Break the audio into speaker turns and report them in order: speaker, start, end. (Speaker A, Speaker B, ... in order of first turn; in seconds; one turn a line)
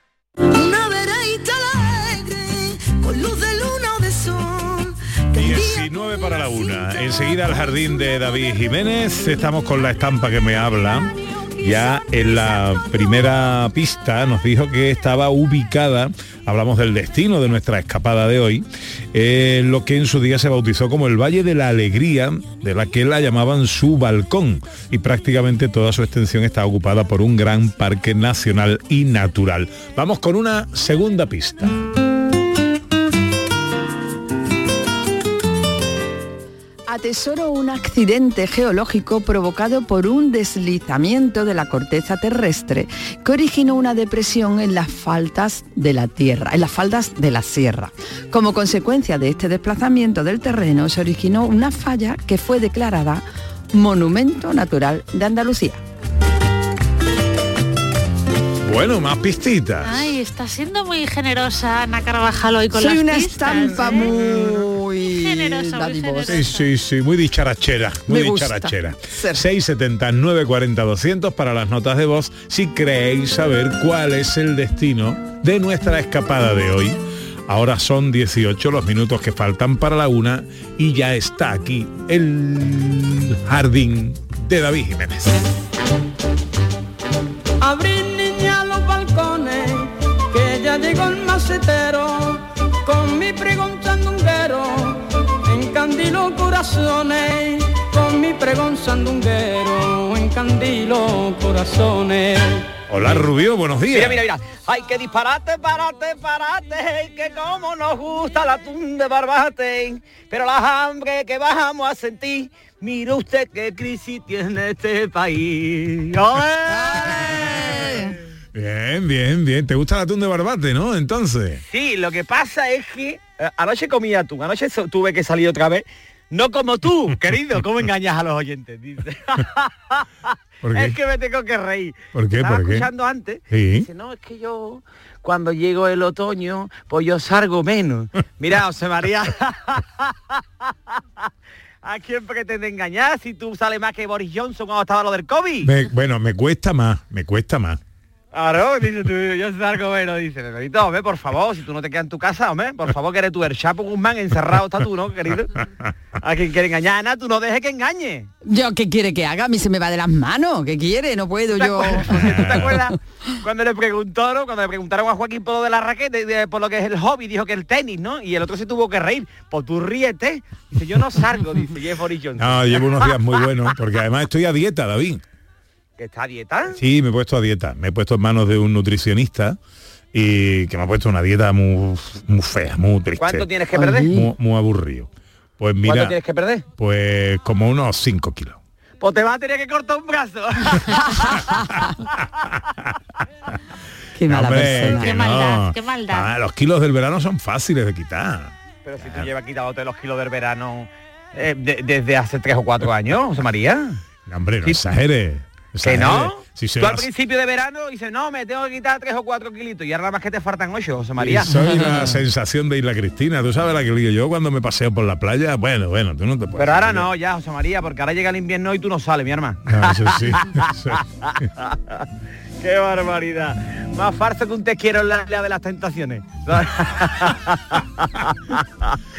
Speaker A: 0.5-5.8
Speaker B: 5.3-31.8
Speaker C: 36.9-55.8
Speaker B: 58.6-60.1
Speaker D: 59.8-64.6
Speaker C: 62.7-66.4
Speaker D: 65.1-66.7
Speaker B: 66.2-85.5
Speaker C: 68.1-69.4
Speaker E: 87.6-102.7
Speaker B: 102.9-104.2
Speaker F: 103.9-117.2
Speaker C: 116.7-118.2
Speaker B: 118.5-121.6
Speaker F: 121.7-130.1
Speaker B: 130.6-131.0
Speaker F: 130.7-141.3
Speaker B: 132.1-132.9
Speaker B: 133.5-133.9
Speaker F: 141.8-145.7
Speaker B: 145.6-147.8
Speaker F: 148.3-155.5
Speaker F: 156.2-158.3
Speaker C: 158.4-162.6
Speaker F: 161.5-173.2
Speaker B: 162.1-162.6
Speaker B: 172.4-175.2
Speaker F: 176.0-176.8
Speaker B: 176.8-179.6
Speaker B: 180.1-186.2
Speaker F: 183.2-184.1
Speaker C: 183.7-184.3
Speaker F: 185.8-186.6
Speaker B: 186.8-188.6
Speaker F: 189.0-191.4
Speaker C: 194.2-195.1
Speaker B: 194.3-199.3
Speaker D: 194.9-196.3
Speaker F: 198.8-204.0
Speaker B: 204.2-207.1
Speaker F: 205.8-211.5
Speaker B: 211.2-217.1
Speaker C: 211.6-212.0
Speaker F: 216.6-222.0
Speaker B: 219.7-221.0
Speaker F: 222.6-229.0